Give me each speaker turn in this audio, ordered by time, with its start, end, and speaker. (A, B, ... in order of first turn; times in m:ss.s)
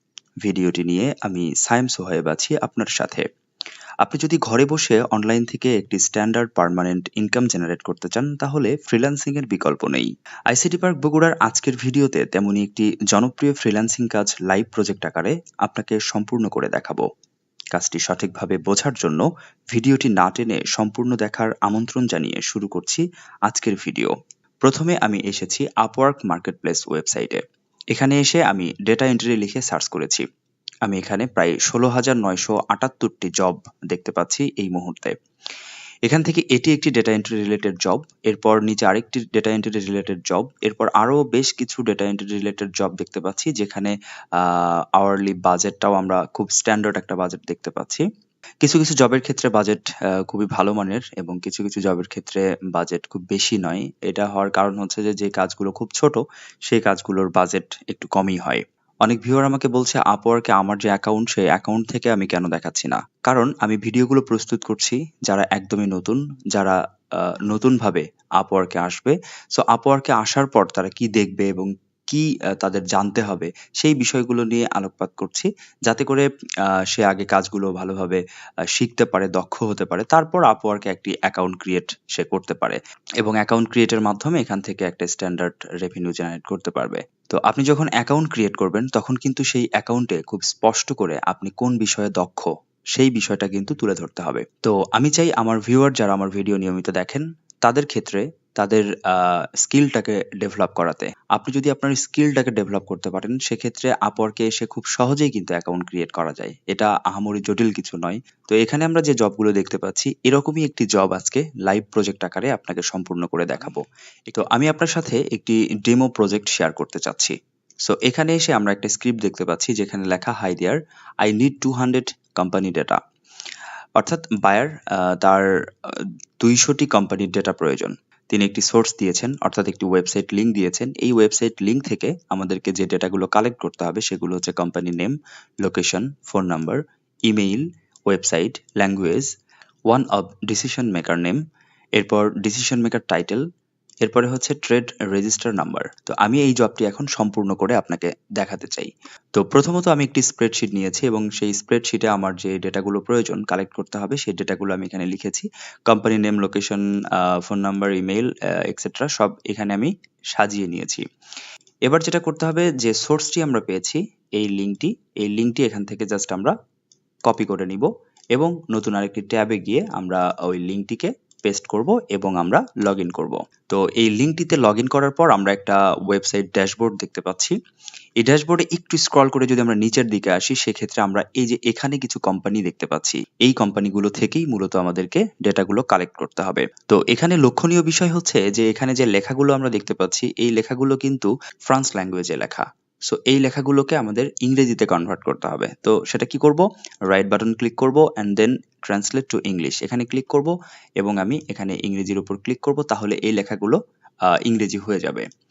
0:00.4-0:03.2 A
0:04.0-0:17.0 A
0:17.7-0:24.1 A
0:24.6-0:27.4 A
0:27.9-0:30.2 A
0:30.8-0:35.2 A
0:36.0-0:48.0 A
0:48.6-1:16.3 A
1:16.9-1:18.2 A
1:18.7-1:57.3 A
1:57.9-2:03.0 A
2:04.0-2:19.3 A
2:19.9-2:21.4 A
2:22.0-2:23.4 A
2:24.0-2:41.0 A
2:41.9-2:46.5 A
2:47.3-2:57.6 A
2:58.2-3:23.8 A
3:24.3-3:25.2 A